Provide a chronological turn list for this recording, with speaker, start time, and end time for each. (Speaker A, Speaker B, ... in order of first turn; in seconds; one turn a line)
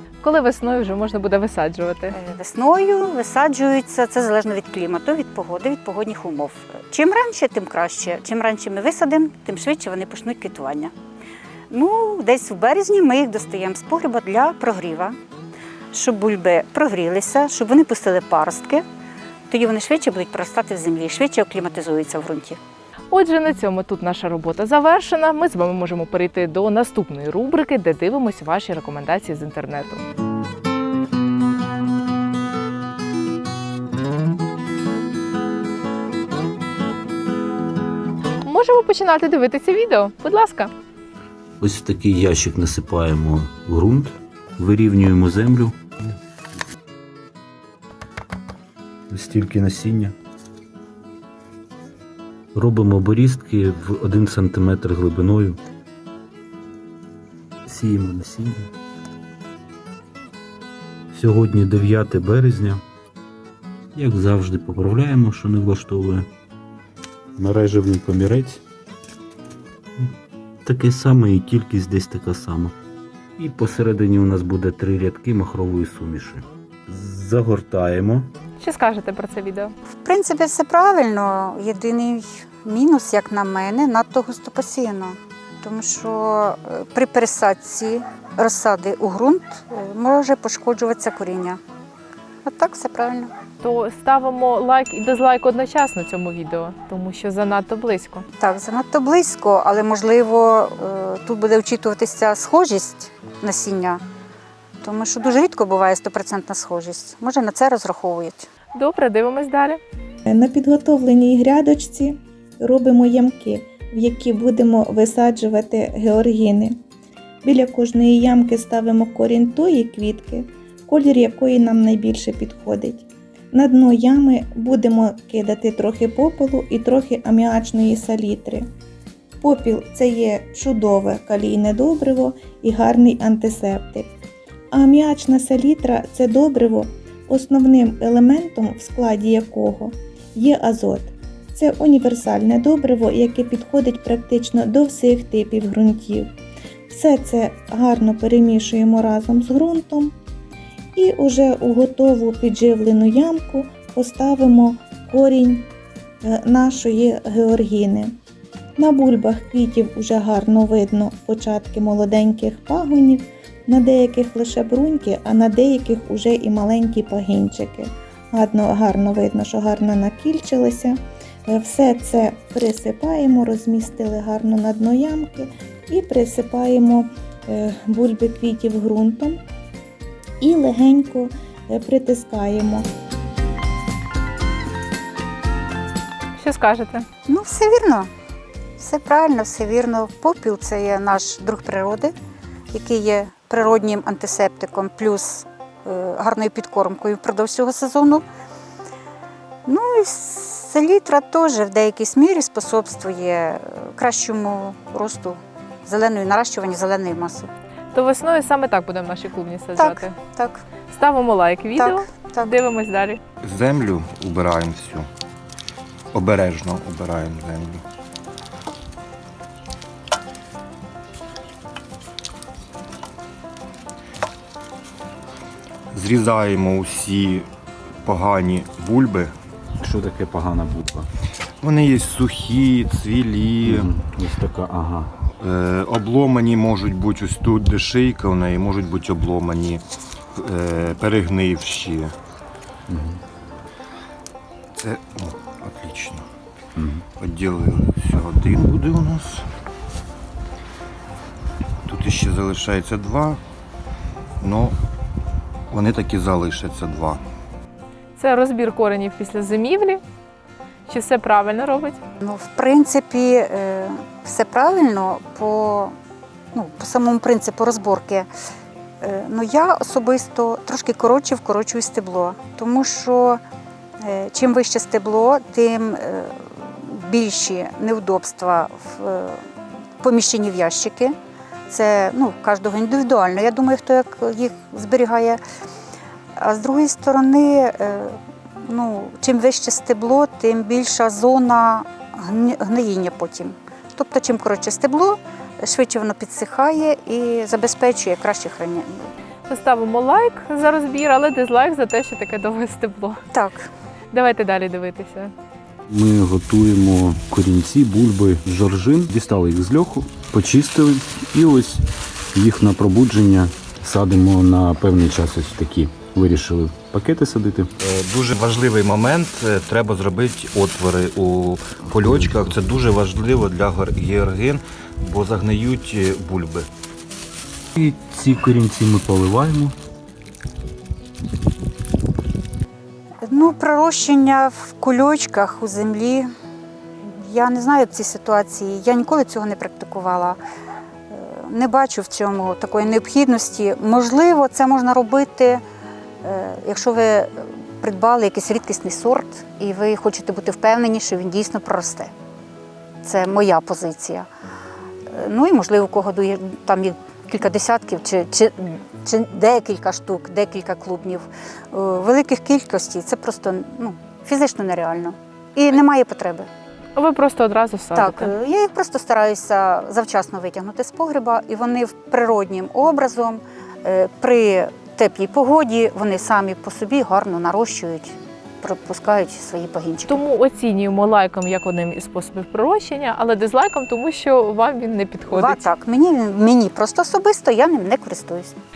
Speaker A: 0.2-2.1
Speaker B: 2.1-10.9
Speaker B: 11.7-15.1
Speaker B: 15.9-18.8
Speaker B: 19.5-22.6
Speaker A: 23.1-30.0
Speaker A: 38.4-40.7
Speaker C: 41.6-45.8
Speaker C: 49.1-50.1
Speaker C: 52.5-55.6
Speaker C: 57.6-58.7
Speaker C: 61.1-62.8
Speaker C: 63.9-66.3
Speaker C: 67.3-68.6
Speaker C: 70.6-72.7
Speaker C: 73.4-78.3
Speaker A: 78.6-79.7
Speaker B: 80.0-91.6
Speaker B: 92.4-93.3
Speaker A: 93.6-98.2
Speaker B: 98.4-104.0
Speaker B: 104.8-108.5
Speaker A: 108.7-109.8
Speaker D: 110.2-116.8
Speaker D: 117.4-128.7
Speaker D: 129.4-134.1
Speaker D: 134.7-146.3
Speaker D: 146.9-150.1
Speaker D: 150.9-155.7
Speaker D: 156.2-158.1
Speaker D: 158.8-179.4
Speaker D: 180.4-182.9
Speaker A: 186.4-187.1
Speaker B: 187.3-188.1
Speaker B: 188.8-192.1
Speaker B: 192.7-198.2
Speaker B: 199.7-207.5
Speaker A: 207.9-210.1
Speaker B: 209.8-210.6
Speaker A: 210.9-213.2
Speaker B: 211.8-212.5
Speaker E: 213.5-215.1
Speaker E: 216.1-217.8
Speaker E: 225.9-227.5
Speaker E: 228.0-229.3
Speaker C: 229.8-231.1
Speaker E: 231.6-233.8
Speaker C: 233.6-235.1
Speaker E: 235.4-239.8
Speaker E: 240.3-242.1
Speaker C: 242.9-243.2
Speaker E: 244.8-246.2
Speaker C: 246.8-247.0
Speaker E: 247.2-249.4
Speaker E: 251.9-253.4
Speaker E: 254.4-254.7
Speaker E: 255.7-257.2
Speaker A: 258.2-260.0
Speaker A: 260.9-262.0
Speaker B: 262.2-265.9
Speaker B: 266.5-268.3
Speaker B: 269.0-273.4
Speaker B: 274.0-279.4
Speaker B: 280.0-281.1
Speaker B: 281.7-285.4
Speaker B: 286.4-299.1
Speaker A: 299.5-303.2
Speaker B: 303.3-303.7
Speaker A: 304.1-305.3
Speaker C: 305.9-317.7
Speaker E: 317.9-326.7
Speaker C: 327.8-329.8
Speaker B: 333.2-336.3
Speaker B: 337.0-340.4
Speaker B: 341.1-345.6
Speaker B: 346.2-352.1
Speaker B: 353.0-354.3
Speaker B: 355.1-366.5
Speaker A: 366.9-368.3
Speaker B: 367.9-380.2
Speaker A: 380.1-385.6
Speaker B: 385.3-388.5